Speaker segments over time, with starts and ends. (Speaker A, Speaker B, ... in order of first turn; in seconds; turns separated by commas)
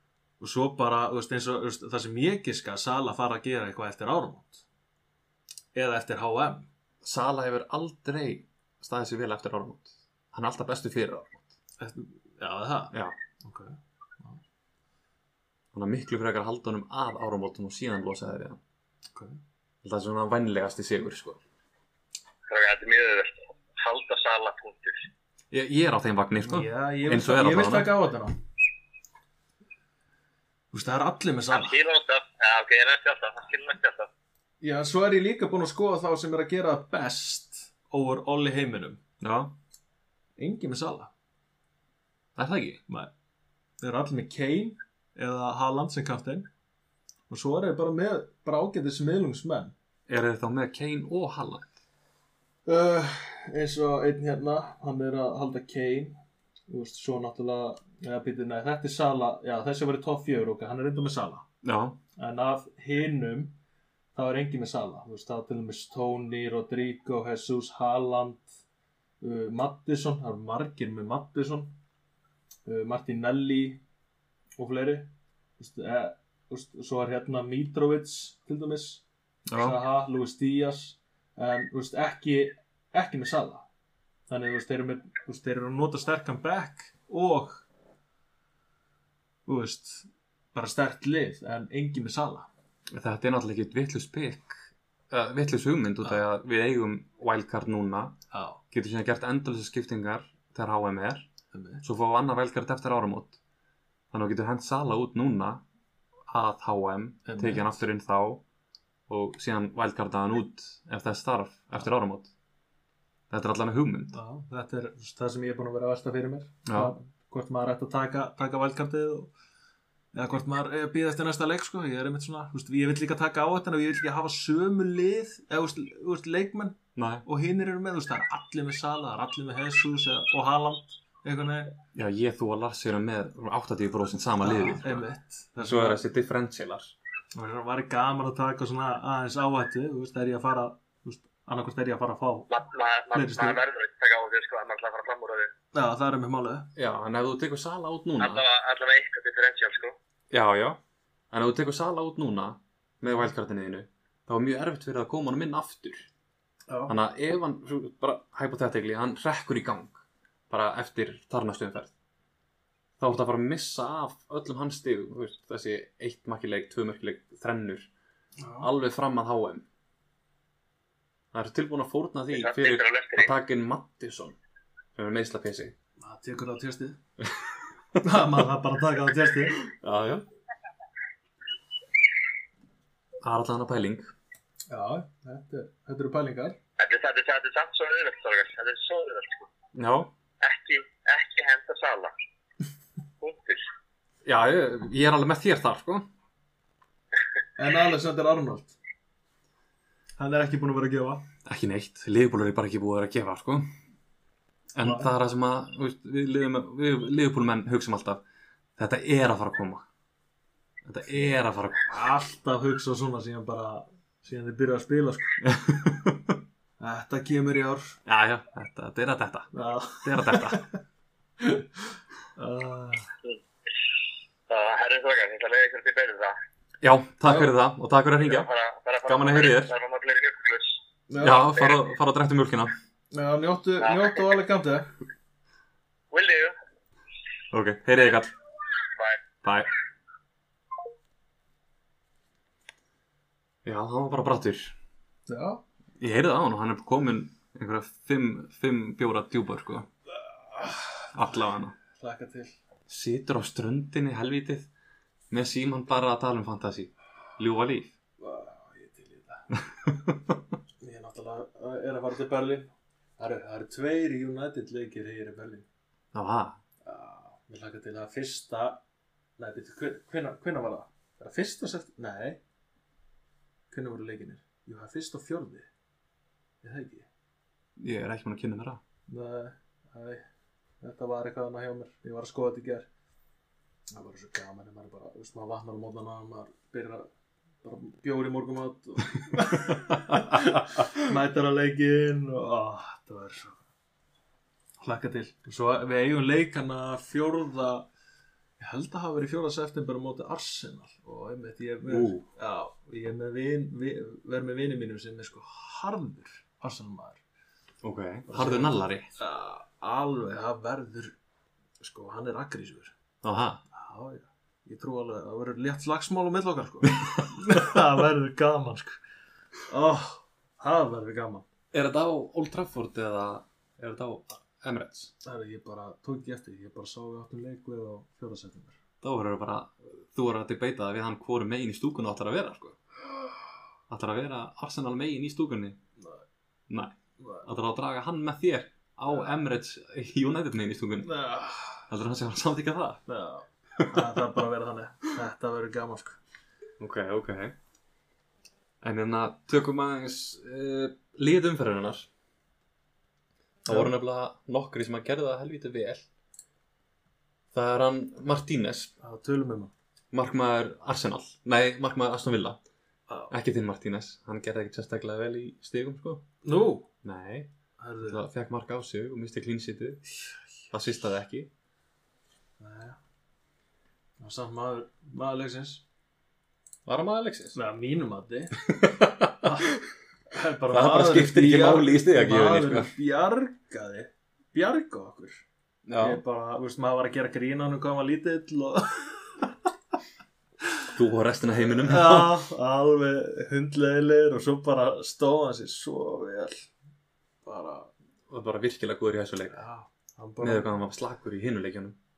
Speaker A: 0.4-4.6, Speaker A: 5.7-6.7, Speaker B: 7.0-11.5, Speaker A: 11.8-14.4, Speaker B: 15.7-18.6, Speaker A: 19.1-19.4, Speaker B: 19.8-21.4, Speaker C: 22.5-25.0, Speaker B: 25.5-27.9, Speaker A: 26.4-28.4, Speaker A: 30.7-31.8, Speaker C: 31.5-34.1, Speaker A: 34.6-39.0, Speaker B: 39.2-39.5, Speaker A: 40.4-41.1, Speaker B: 42.4-42.8, Speaker A: 43.8-46.5, Speaker A: 47.3-49.7, Speaker B: 50.1-51.7, Speaker A: 52.6-56.2, Speaker A: 56.7-61.5, Speaker B: 61.6-62.0, Speaker A: 62.2-63.5, Speaker A: 64.1-68.5, Speaker A: 69.2-71.7, Speaker A: 72.7-73.8, Speaker A: 74.6-79.0, Speaker B: 79.5-79.8, Speaker A: 79.5-83.7, Speaker A: 84.3-87.7, Speaker A: 89.5-92.5, Speaker B: 92.9-98.2, Speaker A: 98.3-98.6, Speaker B: 98.7-101.3, Speaker A: 101.5-101.8, Speaker B: 101.8-103.4, Speaker B: 104.1-105.6, Speaker B: 106.3-108.4, Speaker A: 107.2-107.8, Speaker B: 109.1-112.3, Speaker B: 113.3-114.2, Speaker A: 114.1-119.3, Speaker B: 116.7-116.9, Speaker A: 120.1-131.8, Speaker B: 127.0-127.2, Speaker B: 131.9-135.1, Speaker A: 134.4-136.0, Speaker B: 135.6-136.9, Speaker A: 137.3-142.5, Speaker C: 142.5-145.5, Speaker A: 143.1-143.6, Speaker A: 145.7-146.7, Speaker B: 146.8-148.4, Speaker C: 148.2-149.9, Speaker B: 150.3-150.8, Speaker B: 151.3-156.1, Speaker A: 156.7-157.0, Speaker B: 156.9-161.9, Speaker B: 163.0-167.9, Speaker A: 168.4-168.7, Speaker B: 168.6-169.6, Speaker B: 171.3-174.4, Speaker C: 172.3-173.3, Speaker B: 174.9-175.7, Speaker A: 176.0-177.0, Speaker A: 178.0-179.6, Speaker B: 179.6-180.2, Speaker B: 183.2-184.1, Speaker A: 184.7-186.6, Speaker C: 186.8-189.5, Speaker B: 189.7-190.1, Speaker C: 190.4-192.1, Speaker C: 193.2-193.6, Speaker B: 194.2-196.1, Speaker A: 197.6-198.8, Speaker A: 200.2-201.2, Speaker B: 201.4-203.7, Speaker B: 204.7-208.2, Speaker A: 204.8-205.1, Speaker B: 208.8-209.8, Speaker B: 210.8-212.0, Speaker A: 211.9-215.4, Speaker B: 215.4-216.4, Speaker A: 216.8-218.0, Speaker B: 218.1-219.5, Speaker A: 219.5-220.7, Speaker B: 220.0-220.7, Speaker A: 221.4-221.7, Speaker A: 222.3-223.1, Speaker C: 224.5-226.3, Speaker B: 226.8-228.5, Speaker A: 227.2-227.5, Speaker C: 228.2-230.8, Speaker B: 229.1-229.7, Speaker A: 231.1-231.5, Speaker B: 231.2-232.7, Speaker A: 233.1-234.9, Speaker C: 233.8-234.3, Speaker C: 236.1-236.5, Speaker B: 237.5-238.3, Speaker B: 239.4-239.7, Speaker B: 243.6-244.7, Speaker A: 245.3-245.6, Speaker B: 246.0-249.9, Speaker A: 250.2-251.3, Speaker B: 251.1-251.8, Speaker A: 251.9-252.5, Speaker B: 252.9-254.7, Speaker B: 255.3-257.9, Speaker A: 258.2-259.5, Speaker B: 259.9-260.3, Speaker A: 260.8-265.7, Speaker B: 266.1-266.6, Speaker A: 266.8-268.8, Speaker A: 269.4-272.4, Speaker A: 273.7-275.7, Speaker A: 276.6-277.1, Speaker B: 277.8-278.8, Speaker A: 279.1-280.2, Speaker A: 280.8-282.9, Speaker A: 283.9-287.1, Speaker A: 287.6-293.6, Speaker B: 289.7-290.9, Speaker A: 294.8-297.9, Speaker A: 298.6-307.2, Speaker B: 301.9-302.2, Speaker B: 307.8-309.1, Speaker A: 308.3-311.1, Speaker A: 311.8-312.9, Speaker B: 313.2-313.6, Speaker A: 313.7-319.0, Speaker B: 317.5-317.8, Speaker A: 319.6-321.4, Speaker B: 321.7-325.1, Speaker A: 325.2-328.8, Speaker B: 329.0-332.8, Speaker B: 333.9-335.8, Speaker B: 336.7-341.1, Speaker A: 337.2-337.5, Speaker A: 341.0-341.9, Speaker B: 341.9-343.0, Speaker A: 343.1-346.2, Speaker B: 343.8-344.1, Speaker B: 346.8-347.5, Speaker B: 348.8-352.1, Speaker B: 353.6-356.1, Speaker A: 353.7-353.9, Speaker B: 357.5-358.9, Speaker A: 359.0-359.7, Speaker B: 360.1-362.6, Speaker B: 363.3-366.2, Speaker A: 366.4-366.9, Speaker B: 367.0-367.5, Speaker A: 367.8-368.2, Speaker B: 368.0-370.0, Speaker B: 370.7-371.5, Speaker A: 372.6-373.0, Speaker A: 374.2-375.8, Speaker B: 376.9-377.6, Speaker A: 377.5-378.6, Speaker B: 378.6-379.7, Speaker A: 379.4-379.7, Speaker A: 380.3-385.4, Speaker B: 380.7-382.9, Speaker B: 385.9-386.2, Speaker A: 386.0-389.5, Speaker B: 390.9-392.4, Speaker A: 391.6-396.7, Speaker A: 397.4-397.9, Speaker B: 398.3-399.6, Speaker A: 399.5-400.8, Speaker B: 400.4-402.0